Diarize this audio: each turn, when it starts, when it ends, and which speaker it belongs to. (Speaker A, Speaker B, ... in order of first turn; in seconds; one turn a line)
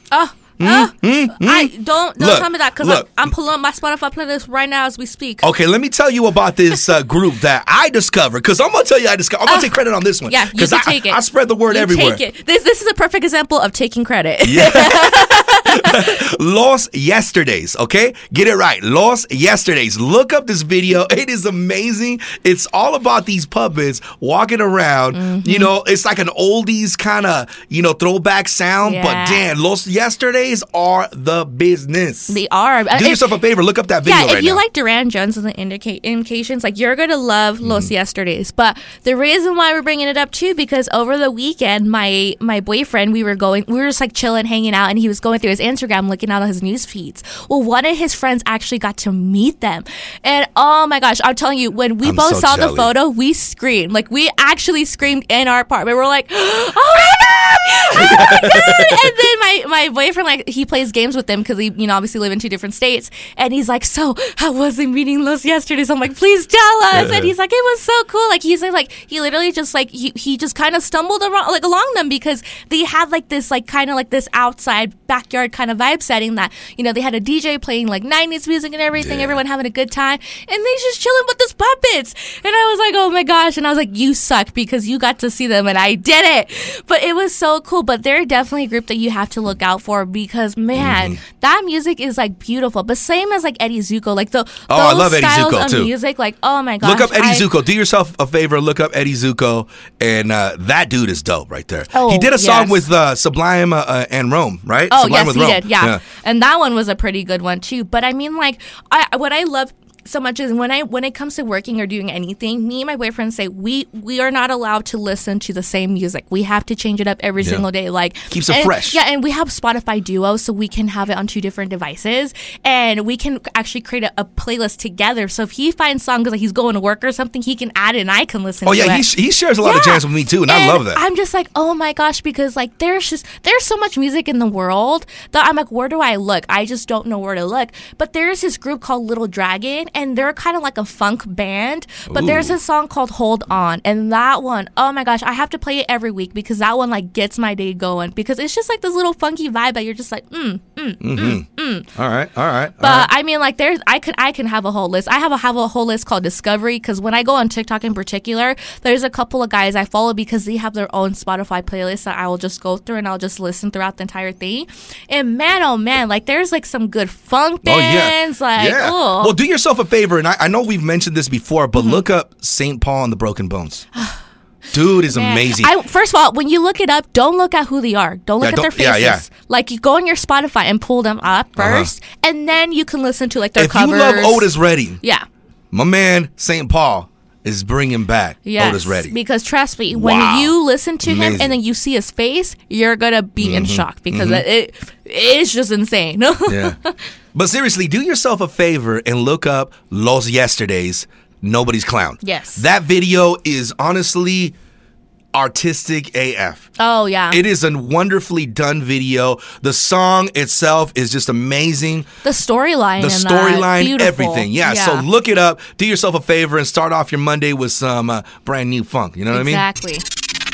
Speaker A: 0.1-5.5
Speaker B: 0.6-3.4
Speaker B: 5.4-12.2
Speaker A: 10.3-16.2
Speaker B: 14.5-32.4
Speaker A: 25.1-25.7
Speaker A: 28.8-29.4
Speaker A: 32.3-33.3
Speaker B: 32.9-34.6
Speaker A: 34.0-97.5
Speaker B: 37.6-37.9
Speaker B: 52.0-52.9
Speaker B: 57.9-59.1
Speaker B: 66.9-67.3
Speaker B: 79.0-79.4
Speaker B: 90.8-91.2
Speaker B: 94.7-95.9
Speaker B: 96.8-106.0
Speaker A: 101.9-102.8
Speaker A: 104.9-129.1
Speaker B: 118.3-119.0
Speaker B: 128.7-131.0
Speaker A: 129.6-151.9
Speaker B: 142.1-142.6
Speaker B: 151.0-153.1
Speaker A: 152.8-169.3
Speaker B: 167.6-173.9
Speaker A: 171.8-172.0
Speaker B: 174.7-175.7
Speaker A: 175.1-184.5
Speaker B: 178.4-179.2
Speaker B: 181.6-181.9
Speaker B: 183.6-185.0
Speaker B: 185.7-189.1
Speaker A: 188.4-197.0
Speaker B: 189.9-191.6
Speaker B: 193.4-194.4
Speaker B: 196.5-196.8
Speaker B: 197.3-204.6
Speaker A: 202.2-202.6
Speaker B: 205.3-206.7
Speaker A: 206.8-207.4
Speaker B: 207.3-212.1
Speaker A: 212.2-215.1
Speaker B: 213.0-219.6
Speaker A: 219.3-220.0